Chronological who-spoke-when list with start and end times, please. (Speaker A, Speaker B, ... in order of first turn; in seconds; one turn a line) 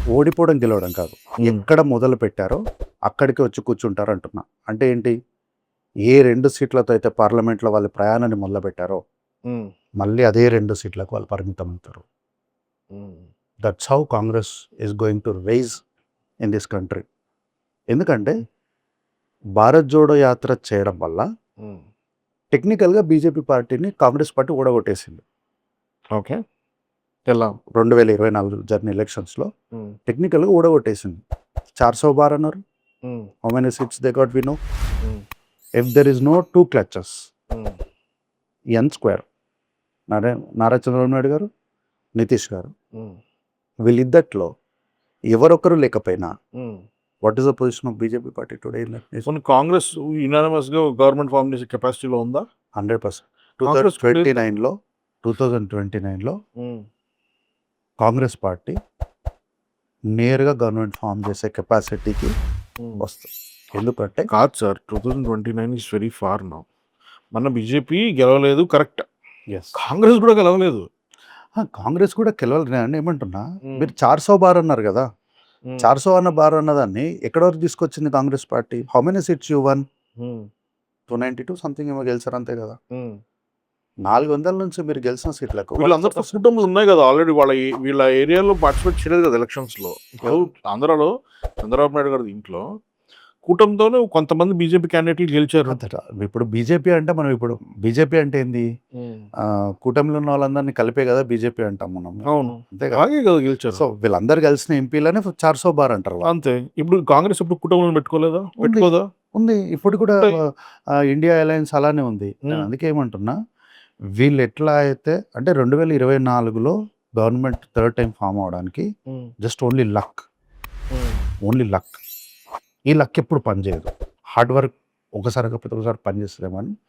Speaker A: 0.1-2.6
Speaker A: 3.1-5.1
Speaker A: 6.1-9.0
Speaker A: 10.0-12.1
Speaker B: 12.9-13.3
Speaker A: 13.6-15.8
Speaker A: 16.4-17.0
Speaker A: 17.9-18.3
Speaker A: 19.6-21.3
Speaker A: 22.5-25.2
Speaker B: 26.1-26.4
Speaker B: 27.3-27.6
Speaker A: 27.8-29.5
Speaker A: 30.1-31.2
Speaker A: 31.8-32.6
Speaker B: 33.0-33.3
Speaker A: 33.4-34.6
Speaker A: 35.8-37.1
Speaker B: 37.5-37.8
Speaker A: 38.8-39.2
Speaker A: 40.1-41.5
Speaker A: 42.2-42.7
Speaker A: 43.9-44.5
Speaker A: 45.3-46.3
Speaker B: 46.6-46.9
Speaker A: 47.2-49.3
Speaker B: 49.3-52.5
Speaker A: 52.8-56.4
Speaker B: 53.6-54.5
Speaker B: 56.6-56.9
Speaker A: 58.0-58.8
Speaker A: 60.2-62.3
Speaker B: 62.8-63.0
Speaker A: 63.0-64.3
Speaker B: 64.3-66.7
Speaker B: 67.3-69.1
Speaker A: 69.5-69.8
Speaker B: 69.8-70.9
Speaker A: 71.6-75.1
Speaker B: 73.7-73.9
Speaker A: 75.8-79.8
Speaker B: 80.2-80.5
Speaker A: 81.1-82.8
Speaker B: 82.9-83.2
Speaker A: 84.1-86.3
Speaker B: 85.8-92.7
Speaker B: 93.4-95.8
Speaker A: 95.7-98.7
Speaker B: 99.0-99.3
Speaker A: 99.8-103.0
Speaker B: 102.3-103.8
Speaker A: 103.8-106.3
Speaker B: 106.2-109.1
Speaker A: 108.6-110.4
Speaker A: 111.1-113.3
Speaker A: 114.2-118.9
Speaker A: 119.4-120.2
Speaker A: 121.5-122.0
Speaker A: 122.9-126.7